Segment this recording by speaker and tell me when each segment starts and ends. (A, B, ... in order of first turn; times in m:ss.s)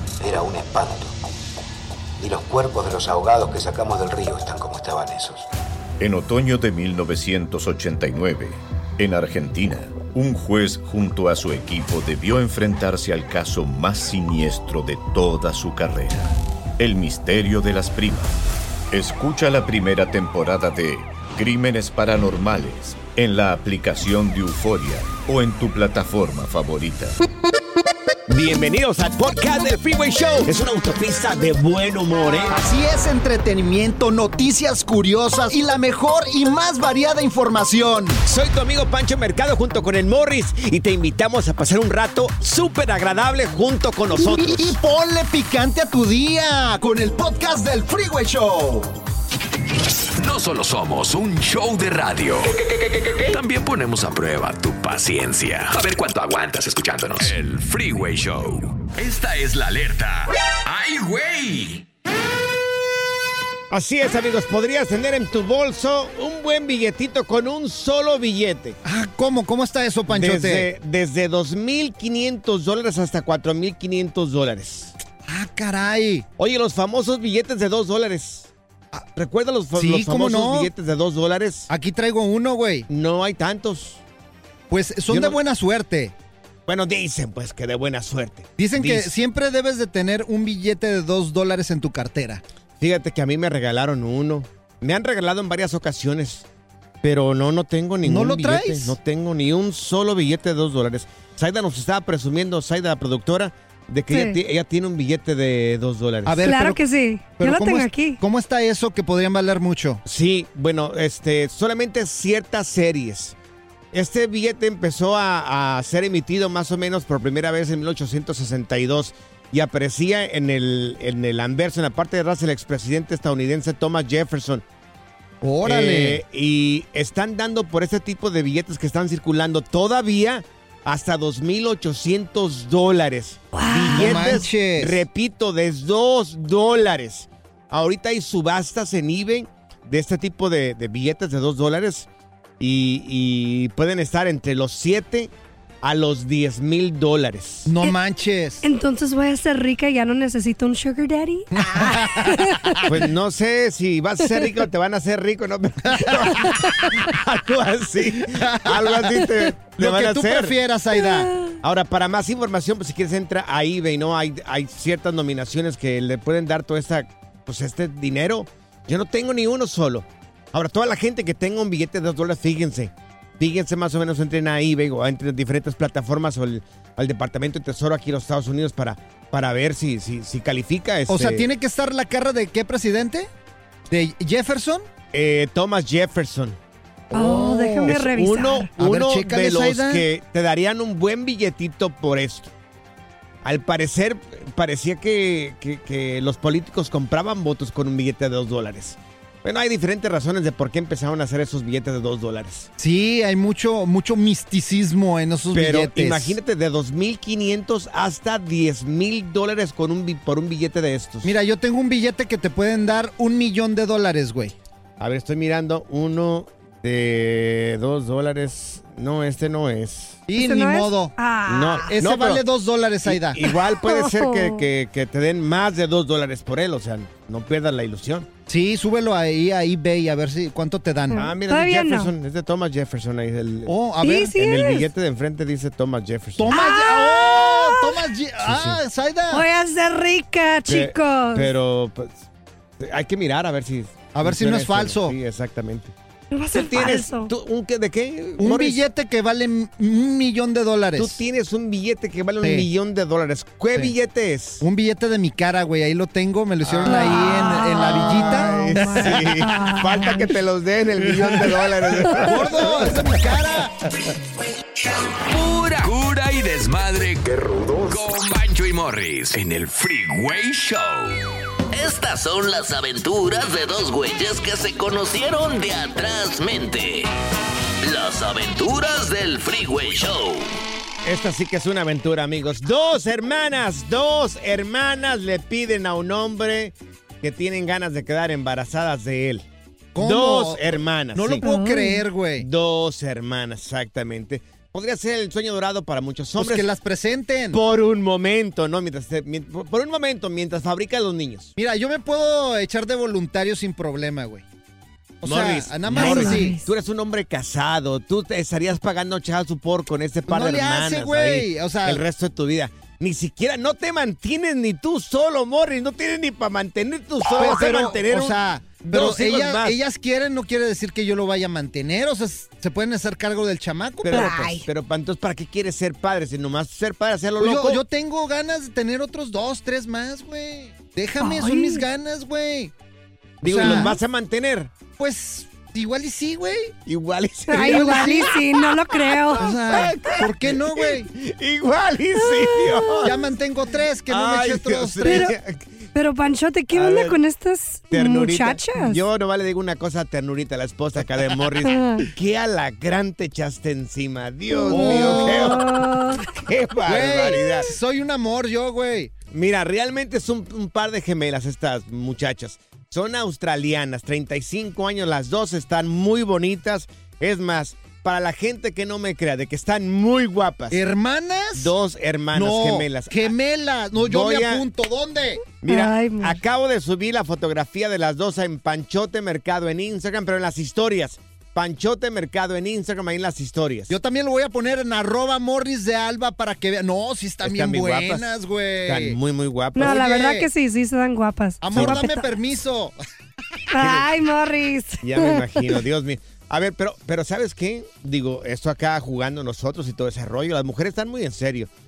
0:00.2-0:01.2 A
0:02.2-0:05.5 A
0:06.0-0:18.4 B
0:18.9-0:27.2 B
0:28.3-0:32.6 C
0:32.6-0:38.2 D
0:38.3-0:44.8 C
0:44.2-0:48.9 D
0:50.2-1:01.8 E
1:03.7-1:08.8 C
1:08.8-1:10.7 D
1:10.1-1:14.9 C
1:15.2-1:16.3 D
1:16.4-1:18.5 C
1:19.2-1:21.7 C
1:19.7-1:20.7 D
1:21.7-1:22.9 D
1:22.9-1:24.0 C
1:24.7-1:26.1 D
1:25.1-1:25.4 C
1:26.7-1:29.1 C
1:28.6-1:32.4 D
1:32.8-1:36.5 C
1:37.0-1:46.5 C
1:38.0-1:39.0 D
1:44.1-1:44.4 F
1:46.3-1:46.8 D
1:46.4-1:48.2 F
1:47.4-1:50.0 D
1:50.0-1:53.4 C
1:53.9-2:04.6 C
2:05.4-2:06.2 D
2:05.6-2:22.1 C
2:13.5-2:14.4 F
2:13.9-2:15.0 D
2:22.6-2:27.7 C
2:27.7-2:28.6 D
2:28.6-2:32.9 F
2:31.6-2:32.8 D
2:32.9-2:40.6 C
2:35.9-2:36.7 D
2:38.2-2:41.3 D
2:41.0-2:41.6 F
2:41.6-3:01.5 C
3:01.1-3:03.3 D
3:03.9-3:04.9 D
3:05.1-3:06.6 C
3:07.1-3:08.7 F
3:07.1-3:08.0 D
3:07.9-3:12.5 C
3:08.8-3:10.1 D
3:13.4-3:22.7 C
3:22.8-3:26.4 D
3:25.5-3:31.4 C
3:31.2-3:34.5 D
3:35.0-3:40.3 C
3:40.3-3:41.2 D
3:40.4-3:42.0 F
3:41.5-3:42.4 C
3:41.8-3:43.4 D
3:43.0-3:48.3 C
3:43.5-3:44.6 F
3:48.5-3:51.3 D
3:51.1-3:52.1 F
3:51.1-3:53.8 C
3:53.7-3:54.4 D
3:54.0-3:54.9 F
3:54.3-3:56.6 C
3:56.4-3:59.5 D
3:56.5-3:58.0 F
3:58.5-3:58.8 C
3:59.3-4:01.5 F
4:00.7-4:02.2 C
4:02.8-4:05.9 C
4:04.1-4:05.2 D
4:06.3-4:07.3 F
4:06.5-4:08.8 C
4:08.4-4:11.2 D
4:11.0-4:14.6 C
4:12.4-4:12.7 D
4:14.6-4:19.3 D
4:16.6-4:23.2 C
4:16.9-4:20.3 F
4:22.1-4:23.9 D
4:25.1-4:31.2 E
4:31.7-4:37.1 G
4:37.8-4:40.6 G
4:41.0-4:49.4 C
4:50.0-4:52.5 D
4:50.0-4:51.4 C
4:51.4-4:52.0 F
4:52.4-4:56.6 C
4:56.4-4:57.6 D
4:57.5-5:01.5 C
5:01.6-5:04.4 D
5:05.2-5:06.6 D
5:05.2-5:19.8 C
5:05.9-5:06.7 F
5:10.3-5:12.0 D
5:17.3-5:24.6 D
5:24.0-5:27.8 C
5:24.1-5:24.6 F
5:27.4-5:32.7 D
5:31.2-5:31.8 F
5:33.4-5:33.9 D
5:33.4-5:34.7 C
5:35.0-5:36.8 D
5:36.9-5:38.5 C
5:37.5-5:39.5 F
5:37.5-5:38.4 D
5:39.1-5:43.2 C
5:39.4-5:41.1 D
5:42.3-5:43.1 F
5:43.0-5:45.3 D
5:44.1-5:45.9 C
5:45.0-5:45.3 F
5:45.9-5:49.0 F
5:46.7-5:47.2 C
5:47.9-5:57.7 C
5:51.6-5:52.1 F
5:54.6-5:56.3 F
5:54.7-5:55.6 D
5:56.8-5:59.1 D
5:59.3-6:10.8 C
6:10.7-6:11.7 D
6:11.6-6:13.3 C
6:12.3-6:15.4 D
6:14.0-6:14.6 C
6:15.6-6:23.9 C
6:15.7-6:16.4 F
6:23.9-6:29.2 D
6:27.4-6:28.3 C
6:28.9-6:30.0 C
6:29.8-6:32.3 F
6:29.8-6:30.5 D
6:31.6-6:33.0 D
6:31.7-6:32.0 C
6:33.7-6:35.8 F
6:33.8-6:34.1 C
6:35.0-6:41.7 C